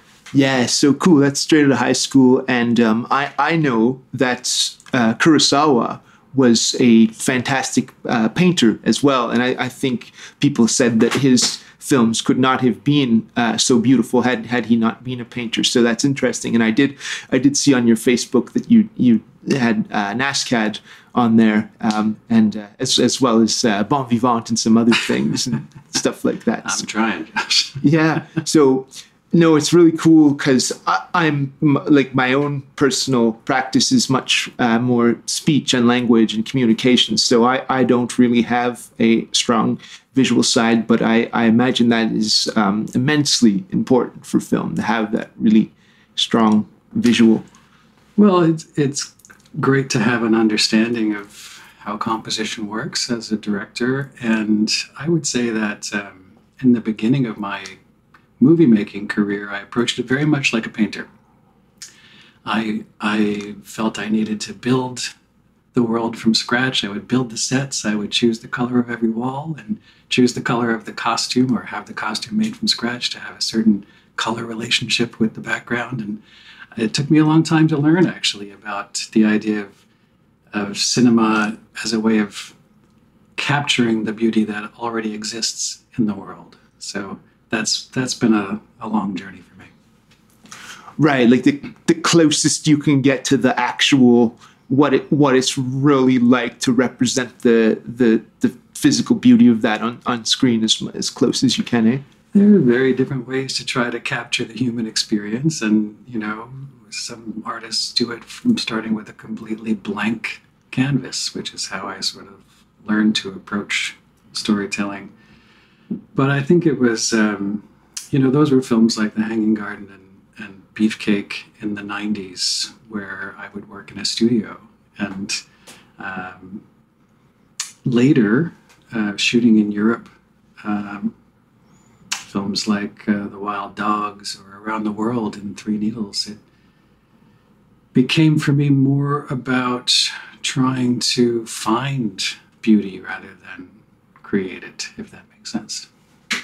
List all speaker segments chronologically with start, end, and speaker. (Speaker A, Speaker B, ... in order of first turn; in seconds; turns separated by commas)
Speaker A: 0.3-26.9, Speaker B: 26.6-27.8, Speaker A: 27.8-47.5, Speaker B: 48.2-57.8, Speaker B: 58.4-61.1, Speaker B: 62.5-65.2, Speaker B: 65.7-76.2, Speaker B: 76.8-79.8, Speaker B: 80.5-82.6, Speaker B: 83.4-89.7, Speaker A: 91.0-102.0, Speaker B: 102.3-115.1, Speaker B: 116.2-125.4, Speaker B: 126.0-126.6, Speaker B: 127.8-130.1, Speaker B: 130.6-131.2, Speaker B: 132.2-136.4, Speaker B: 137.9-145.9